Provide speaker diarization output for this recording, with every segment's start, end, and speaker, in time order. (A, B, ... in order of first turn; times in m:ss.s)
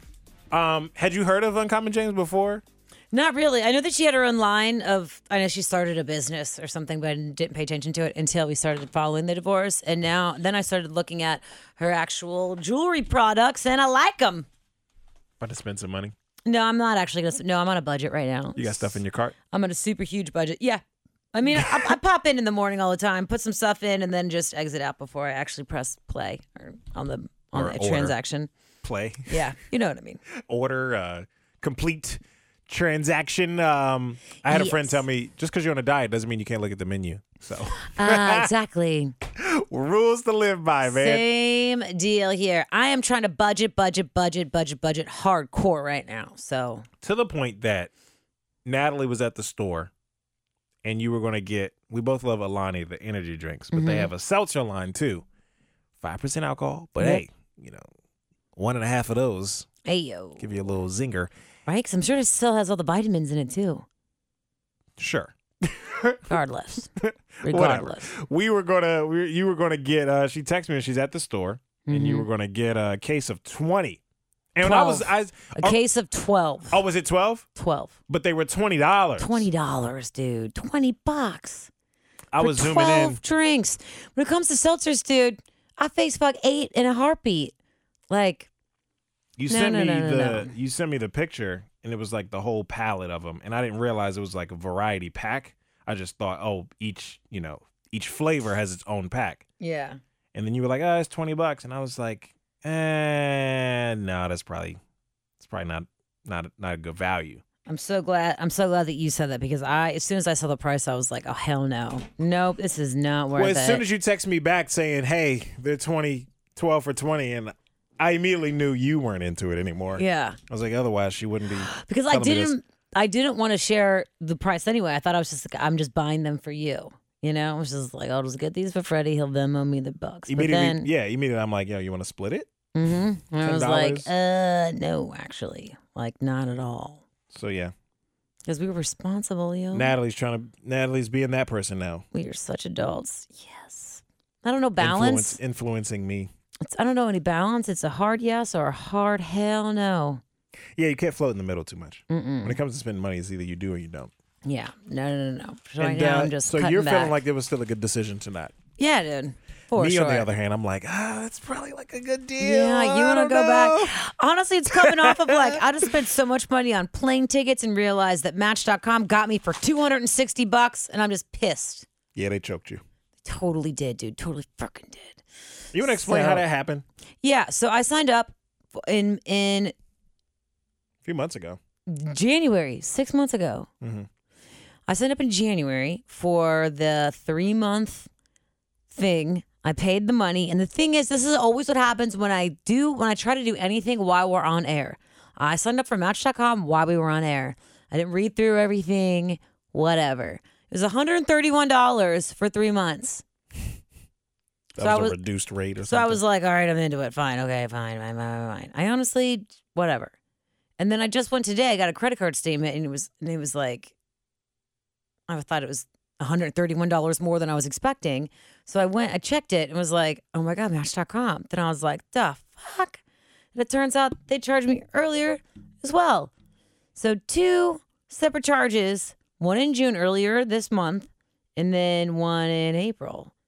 0:00.5-0:02.6 A
0:03.1-0:14.5 B
0:15.4-0:16.1 A
0:16.4-0:19.0 B
0:18.6-0:19.3 A
0:19.5-0:20.8 B
0:21.3-0:28.5 B
0:21.5-0:21.9 A
0:27.5-0:28.1 A
0:28.8-0:29.4 A
0:29.3-0:30.2 B
0:30.4-0:38.5 A
0:34.4-0:35.0 B
0:38.0-0:39.1 B
0:39.2-0:41.2 A
0:40.8-0:46.9 B
0:47.0-0:47.9 A
0:48.6-0:49.9 A
0:50.8-0:55.2 A
0:53.7-0:54.1 B
0:56.0-0:57.8 A
0:57.0-0:57.2 B
0:58.5-0:59.7 A
0:59.8-1:00.4 B
1:00.4-1:01.3 A
1:01.7-1:03.8 B
1:05.0-1:06.4 A
1:06.3-1:06.9 B
1:07.0-1:14.0 A
1:07.4-1:08.1 B
1:11.8-1:12.3 B
1:14.5-1:15.8 A
1:14.6-1:16.8 B
1:16.7-1:17.5 A
1:17.6-1:17.9 B
1:18.1-1:19.5 A
1:19.2-1:21.7 B
1:22.3-1:23.2 A
1:22.4-1:27.5 B
1:28.1-1:28.5 B
1:29.4-1:39.4 A
1:29.5-1:30.5 B
1:39.6-1:40.0 B
1:40.3-1:44.8 A
1:45.4-1:47.4 A
1:47.7-1:53.8 B
1:53.3-2:02.5 A
2:00.0-2:00.4 B
2:01.7-2:10.9 B
2:10.3-2:12.5 A
2:12.7-2:17.0 B
2:13.4-2:14.1 A
2:17.3-2:17.7 A
2:18.4-2:19.9 B
2:19.7-2:22.0 A
2:22.1-2:25.4 B
2:24.8-2:26.3 A
2:26.6-2:30.2 B
2:30.7-2:34.1 A
2:32.1-2:32.6 B
2:34.4-2:37.2 B
2:35.8-2:38.5 A
2:38.8-2:40.3 B
2:39.8-2:44.0 A
2:42.4-2:51.9 B
2:44.7-2:45.9 A
2:52.1-2:52.8 A
2:53.2-2:55.2 B
2:55.7-2:56.8 A
2:55.8-2:56.4 B
2:57.2-2:59.7 B
3:01.0-3:01.6 A
3:01.9-3:03.7 B
3:03.8-3:04.1 A
3:04.9-3:08.1 B
3:08.9-3:23.2 B
3:24.8-3:26.2 A
3:24.8-3:25.2 B
3:25.8-3:30.1 B
3:30.8-3:33.9 B
3:35.3-3:43.0 B
3:43.5-3:46.3 B
3:46.9-3:53.3 B